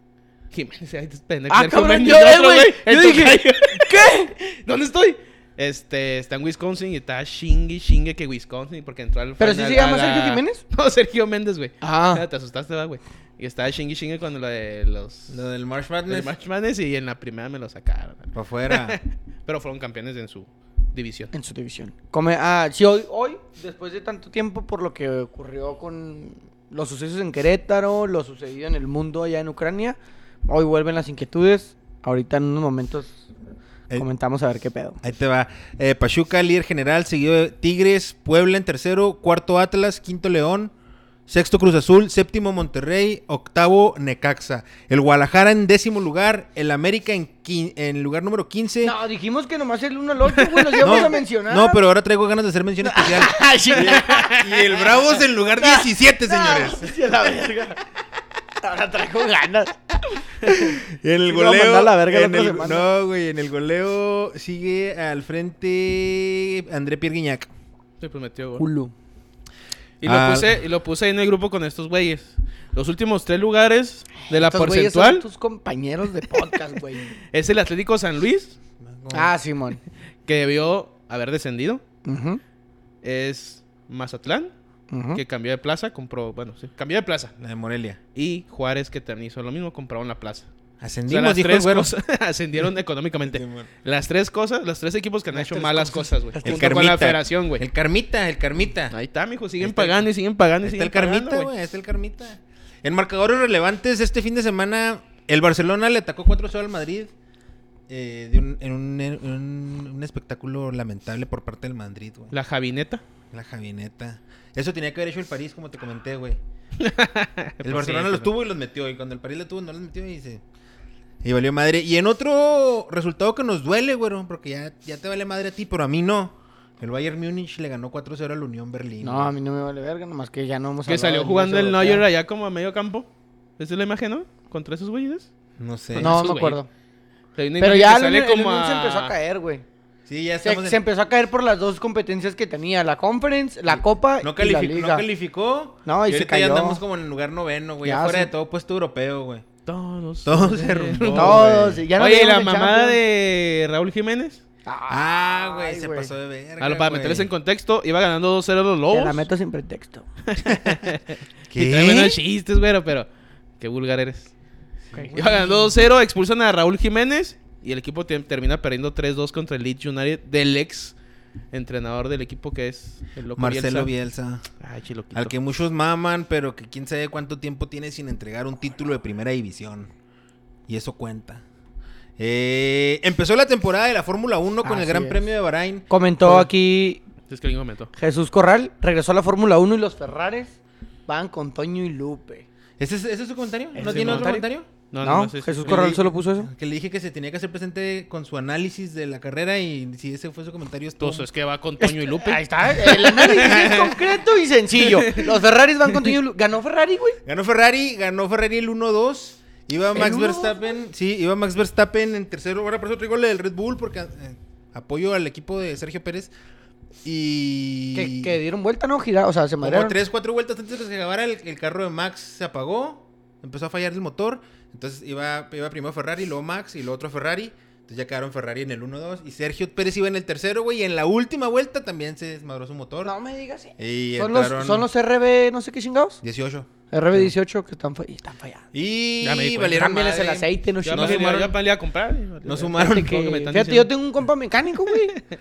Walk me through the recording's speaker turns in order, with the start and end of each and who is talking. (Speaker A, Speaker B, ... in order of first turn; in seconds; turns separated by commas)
Speaker A: 0.5-15.4, Speaker B: 1.5-4.3, Speaker B: 9.4-10.6, Speaker B: 11.8-12.2, Speaker C: 15.3-16.3, Speaker A: 16.1-21.3, Speaker C: 18.3-19.0, Speaker B: 21.3-33.3, Speaker B: 34.0-35.0, Speaker C: 35.0-40.7, Speaker C: 41.3-49.0, Speaker B: 48.8-51.8, Speaker A: 50.4-51.0, Speaker C: 50.8-57.0, Speaker B: 52.8-54.9, Speaker A: 53.8-54.5, Speaker B: 55.6-57.8, Speaker B: 58.6-62.9, Speaker C: 60.5-67.5, Speaker A: 68.0-68.6, Speaker B: 68.6-68.9, Speaker A: 70.0-75.2, Speaker C: 70.0-70.6, Speaker B: 74.3-77.1, Speaker A: 77.3-78.6, Speaker C: 78.8-79.3, Speaker B: 79.1-79.8, Speaker A: 80.3-81.8, Speaker B: 82.0-82.4, Speaker A: 83.0-84.5, Speaker B: 84.9-85.2, Speaker A: 85.1-87.3, Speaker C: 87.4-88.0, Speaker A: 88.2-90.5, Speaker C: 90.8-91.9, Speaker A: 91.1-97.7, Speaker C: 93.3-93.7, Speaker B: 95.4-96.7, Speaker C: 96.4-99.0, Speaker A: 98.9-101.5, Speaker C: 99.6-100.1, Speaker C: 100.6-107.1, Speaker C: 107.9-112.3, Speaker A: 112.3-113.0, Speaker C: 113.3-116.4, Speaker A: 116.8-118.3, Speaker C: 117.6-120.4, Speaker C: 121.2-129.3, Speaker B: 129.0-132.0, Speaker A: 130.9-135.3, Speaker C: 135.6-136.2, Speaker A: 135.9-136.6, Speaker B: 136.0-136.7, Speaker A: 137.4-139.1, Speaker B: 137.6-139.7, Speaker C: 140.1-140.8, Speaker B: 140.4-145.1, Speaker C: 143.7-149.5, Speaker B: 145.9-146.8, Speaker B: 147.8-148.3, Speaker A: 149.7-151.4, Speaker C: 150.2-151.8, Speaker B: 151.1-153.0, Speaker A: 152.0-154.4, Speaker B: 154.7-156.1, Speaker C: 154.9-157.3, Speaker A: 156.6-159.3, Speaker B: 158.9-160.1, Speaker A: 160.3-163.1, Speaker C: 160.5-160.8, Speaker C: 161.5-162.2, Speaker A: 163.6-164.3, Speaker C: 164.9-165.7, Speaker B: 164.9-165.2, Speaker A: 165.1-170.9, Speaker A: 171.5-173.9, Speaker C: 173.4-174.5, Speaker A: 174.6-175.4, Speaker C: 175.1-179.9, Speaker C: 180.7-181.4, Speaker C: 182.2-186.4, Speaker B: 184.6-185.3, Speaker B: 185.9-187.0, Speaker A: 187.3-187.9, Speaker B: 188.0-192.5, Speaker C: 192.8-194.7, Speaker B: 193.8-194.5, Speaker A: 193.8-194.3, Speaker A: 194.9-195.9, Speaker B: 195.0-196.5, Speaker C: 195.7-201.3, Speaker A: 201.0-203.9, Speaker B: 201.8-207.2, Speaker C: 203.3-204.0, Speaker A: 204.8-205.3, Speaker C: 207.3-216.3, Speaker B: 209.9-210.7, Speaker C: 217.0-218.3, Speaker B: 217.9-220.0, Speaker C: 219.6-233.1, Speaker B: 233.0-236.2, Speaker C: 233.8-234.9, Speaker C: 236.2-237.3, Speaker B: 236.9-238.7, Speaker C: 238.7-241.6, Speaker A: 239.2-239.9, Speaker B: 239.7-241.5, Speaker A: 240.8-243.9, Speaker C: 242.4-243.2, Speaker B: 242.7-245.2